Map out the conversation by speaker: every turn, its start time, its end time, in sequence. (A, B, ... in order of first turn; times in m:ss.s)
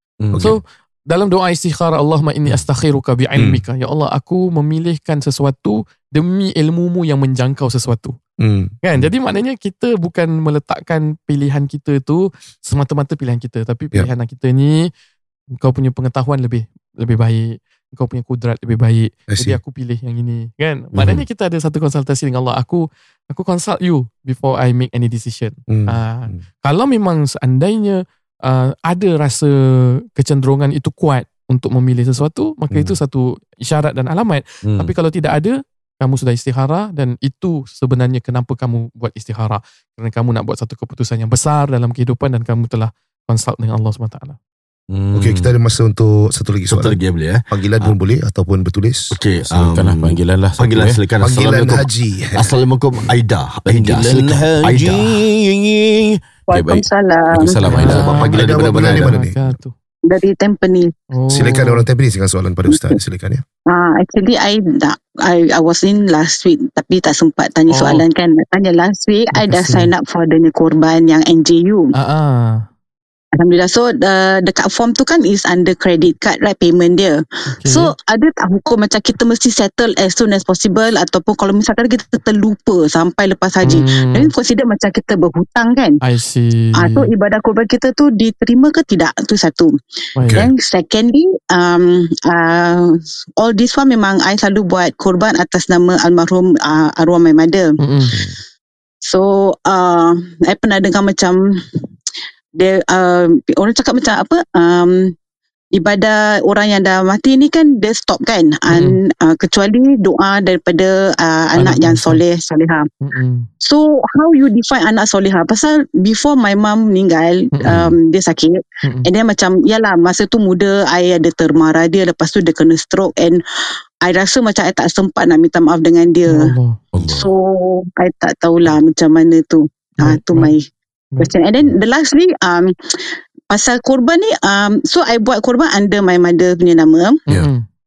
0:00.2-0:00.6 A
0:00.4-0:08.2 B
0:03.4-0:03.6 C
0:08.4-0:09.1 C
0:08.8-0:14.9 B
0:15.6-0:44.4 B
0:19.3-0:19.6 C
0:21.0-0:21.2 D
0:25.7-0:26.4 C
0:34.6-0:34.9 A
0:44.9-0:45.5 A
0:45.1-0:47.0 C
0:46.7-0:47.9 D
0:47.5-0:49.2 C
0:49.1-0:55.2 D
0:49.4-0:51.0 A
0:51.2-0:52.4 C
0:53.6-0:58.2 A
0:56.5-0:57.6 E
0:57.7-0:59.7 B
0:57.8-0:59.1 D
0:58.3-0:59.6 C
1:00.1-1:00.9 E
1:01.1-1:01.8 B
1:01.3-1:03.4 C
1:02.7-1:03.0 E
1:03.7-1:11.9 E
1:07.7-1:08.0 B
1:09.3-1:09.9 B
1:11.9-1:12.6 B
1:13.4-1:26.0 E
1:17.5-1:17.9 B
1:23.6-1:24.3 B
1:26.0-1:27.1 B
1:26.8-1:29.7 E
1:30.2-1:30.4 B
1:30.2-1:37.8 E
1:37.8-1:38.2 B
1:39.0-1:41.4 E
1:42.6-1:45.1 E
1:45.7-1:52.9 E
1:48.7-1:49.0 B
1:51.6-1:52.2 B
1:53.0-1:53.5 B
1:53.6-2:03.4 E
1:57.7-1:57.9 A
2:04.0-2:10.6 E
2:06.3-2:06.8 B
2:06.9-2:07.3 A
2:10.0-2:10.5 B
2:11.2-2:17.2 E
2:17.3-2:17.6 B